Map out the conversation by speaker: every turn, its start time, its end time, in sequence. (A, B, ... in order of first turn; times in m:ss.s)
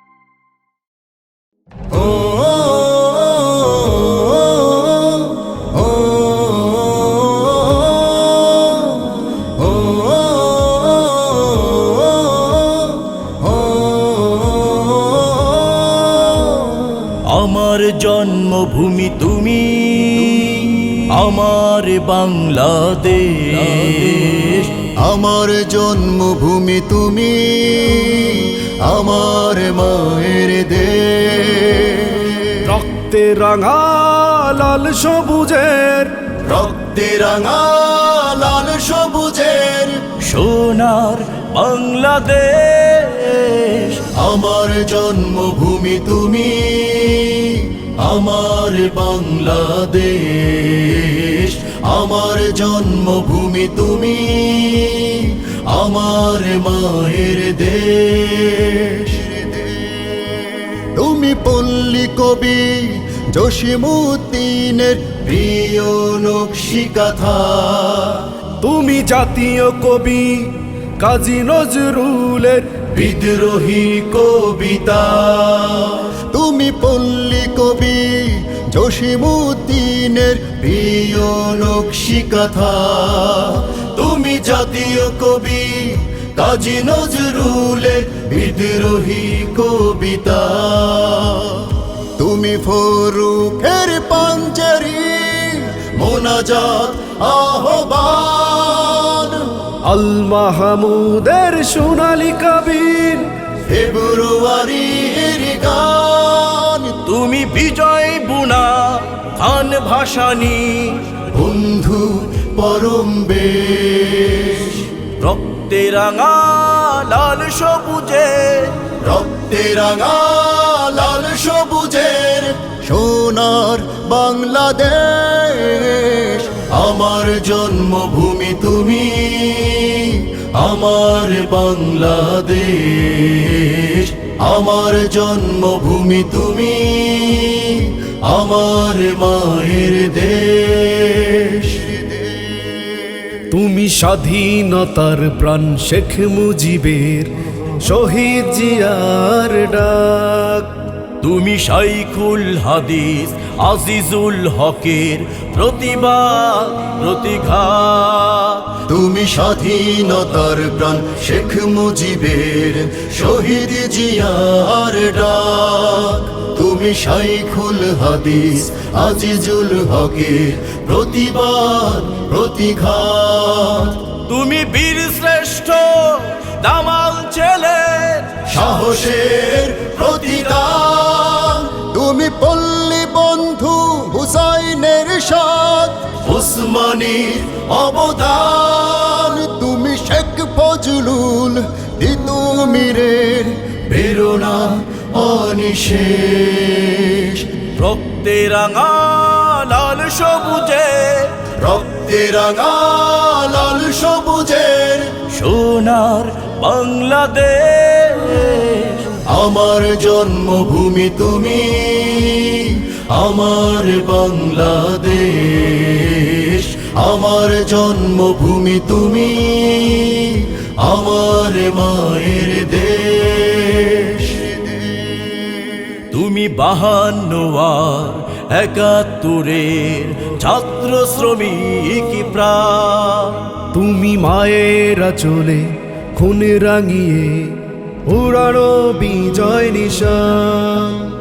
0:02.1-0:05.3 A
0:08.6-0:09.0 A
0:09.6-0:13.0 A
0:14.2-0:16.9 A
0:17.2-0:24.9 B
0:25.0-0:32.6 A
0:32.6-0:36.1 C
0:36.4-0:40.0 A
0:40.2-0:44.1 B
0:44.1-0:57.9 A
0:57.8-0:58.6 B
0:58.6-0:59.6 A
1:00.6-1:08.3 A
1:08.6-1:12.8 C
1:12.9-1:39.5 A
1:39.9-1:43.3 C
1:43.7-1:47.0 A
1:47.0-1:51.2 B
1:51.3-1:54.9 A
1:55.2-1:58.8 B
1:59.0-2:20.4 A
2:20.3-2:21.6 B
2:23.5-2:30.7 C
2:31.2-2:38.8 B
2:38.9-2:54.2 A
2:54.2-2:58.4 B
2:58.4-3:06.4 A
3:06.3-3:09.0 B
3:07.3-3:08.3 A
3:08.9-3:17.4 A
3:17.7-3:21.5 B
3:21.6-3:25.2 A
3:25.3-3:29.2 B
3:29.2-3:43.0 A
3:42.1-3:44.2 B
3:46.1-3:53.5 B
3:53.7-4:01.1 C